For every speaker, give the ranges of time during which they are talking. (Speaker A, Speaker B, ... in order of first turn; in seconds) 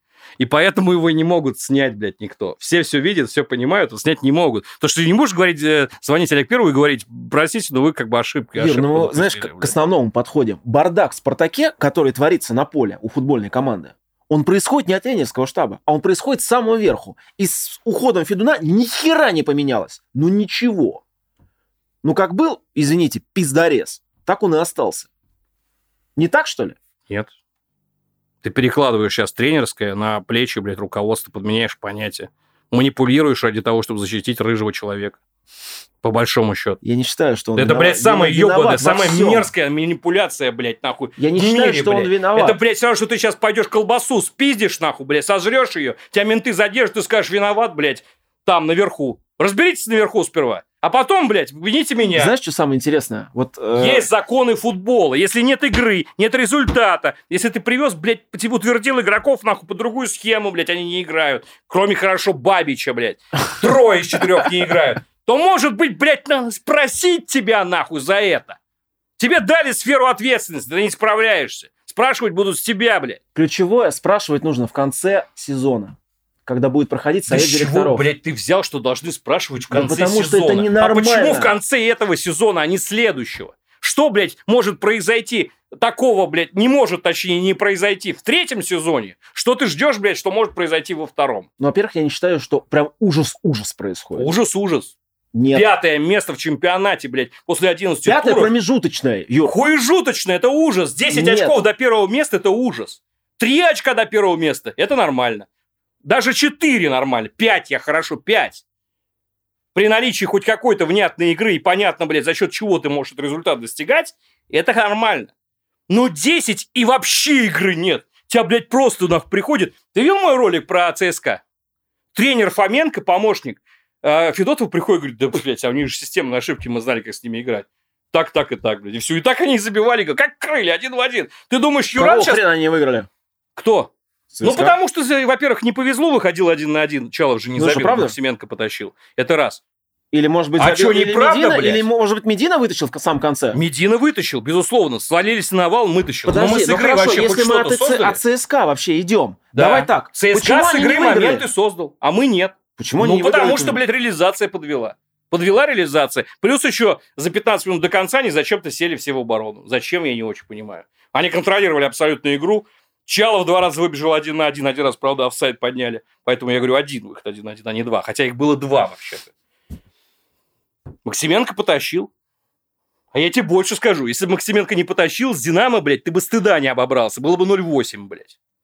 Speaker A: 0.4-9.8, 28.4-35.2, 36.0-36.8, 37.6-52.3, 53.8-68.6, 69.2-73.2, 77.3-91.5, 94.2-95.0, 95.5-98.5, 99.5-105.5, 106.0-108.6, 109.7-115.3, 115.9-121.4, 122.1-132.4, 133.6-139.6, 140.6-141.8, 143.5-148.2, 149.5-169.3, 171.1-172.1, 173.1-178.3
Speaker B: 8.6-21.0, 22.0-25.1, 26.2-26.8, 36.8-39.5, 41.2-42.6, 52.1-54.1, 73.3-78.1, 79.7-81.5, 91.6-94.3, 95.3-95.7, 98.0-99.6, 101.1-101.6, 131.9-133.1, 134.3-134.8, 137.6-138.2, 140.1-143.6, 146.3-151.5, 152.8-153.8